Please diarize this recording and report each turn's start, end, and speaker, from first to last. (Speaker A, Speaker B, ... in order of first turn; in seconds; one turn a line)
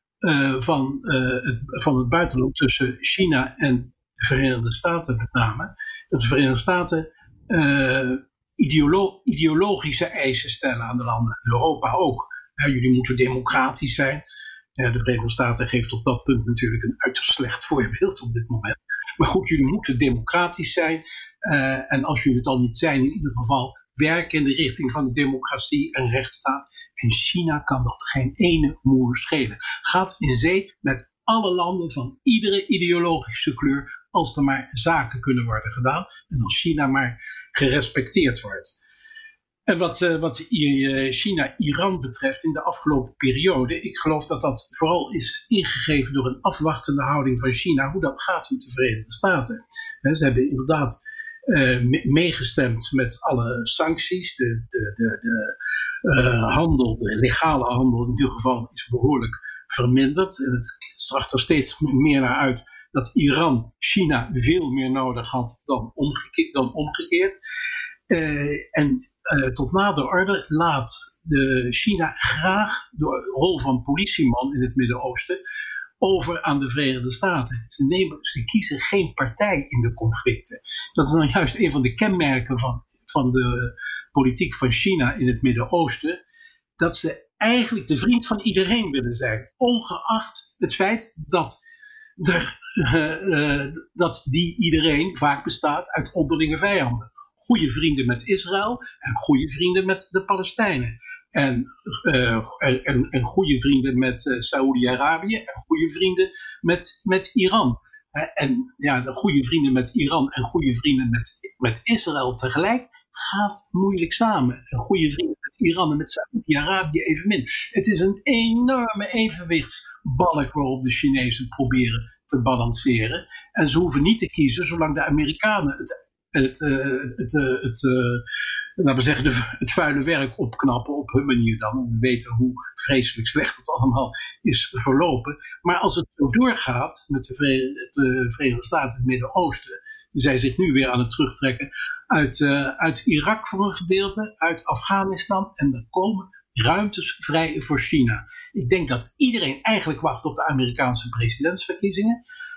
Speaker A: 0.2-14.2
Speaker A: 14.8-38.8
Speaker A: 39.7-51.0
Speaker A: 51.5-55.5
Speaker A: 56.0-67.3
Speaker A: 68.1-75.4
Speaker A: 76.0-86.2
Speaker A: 86.8-91.6
Speaker A: 92.2-128.2
Speaker A: 128.8-152.2